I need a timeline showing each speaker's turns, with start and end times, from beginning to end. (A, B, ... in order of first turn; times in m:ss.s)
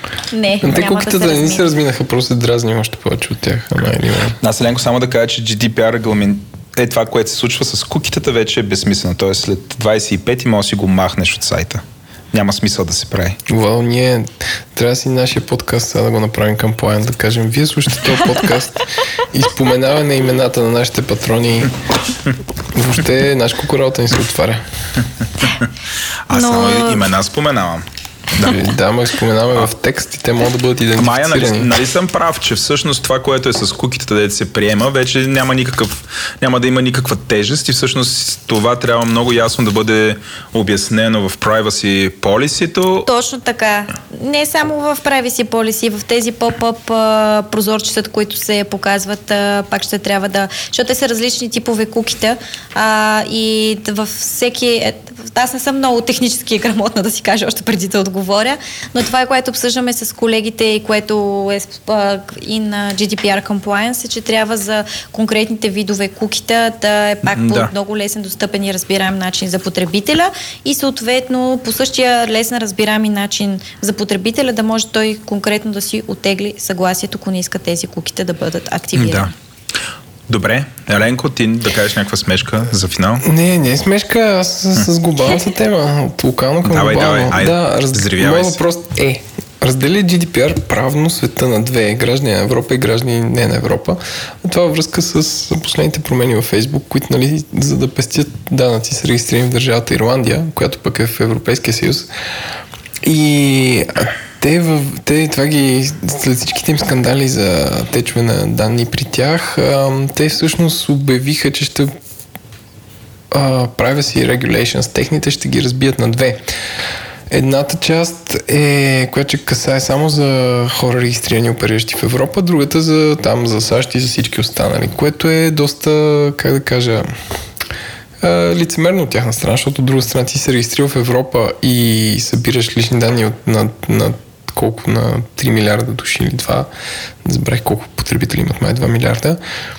0:00.3-0:01.6 A
0:00.6-0:04.4 B
0:04.4-0:13.4 C
0:13.5-0:21.8 B
0:22.7-0:24.6 B
0:26.3-0:28.6 C
0:26.3-0:27.0 A
0:28.4-0:31.7 B
0:31.0-0:43.1 C
0:43.0-1:19.3 A
1:07.2-1:07.7 C
1:18.9-1:19.3 C
1:20.3-1:23.2 C
1:23.2-1:42.1 B
1:26.6-1:28.6 C
1:43.0-1:51.9 B
1:53.3-1:56.5 B
1:57.3-2:07.1 B
2:08.2-2:16.7 B
2:17.2-2:19.4 B